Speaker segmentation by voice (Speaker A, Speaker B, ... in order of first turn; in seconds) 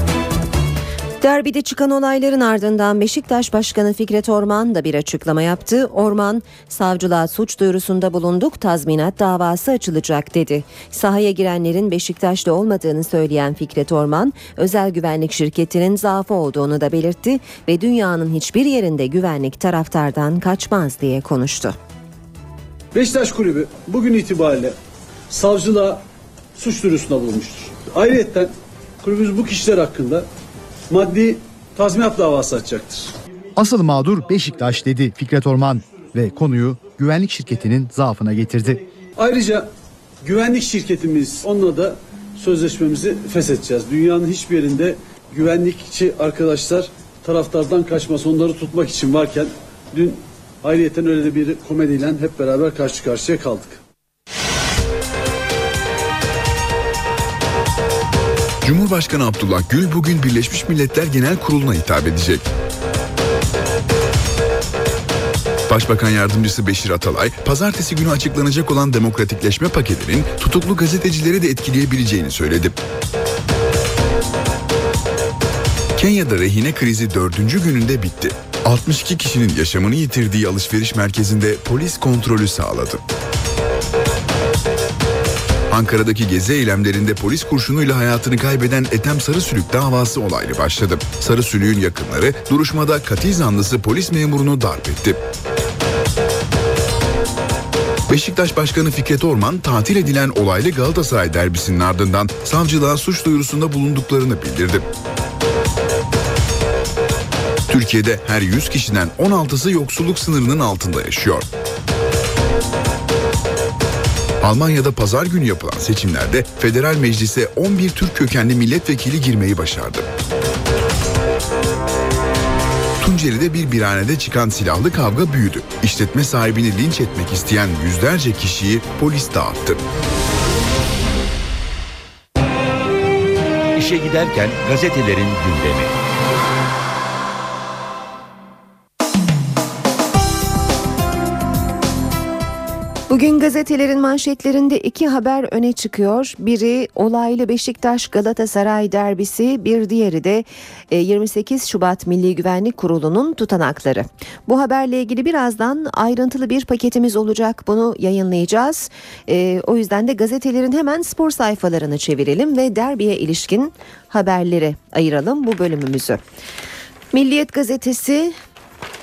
Speaker A: 1.2-21.8, 143.1-166.2, 167.1-168.3
Speaker B: 22.9-24.7, 25.3-26.0, 26.6-28.5, 29.0-30.3, 30.9-33.1, 39.2-39.7, 40.2-53.8
Speaker C: 33.6-38.8
Speaker D: 58.6-62.5, 65.7-72.8, 76.0-83.0, 85.7-95.2, 98.1-104.8, 107.7-111.5, 114.4-120.0, 123.0-129.8
Speaker E: 133.7-135.9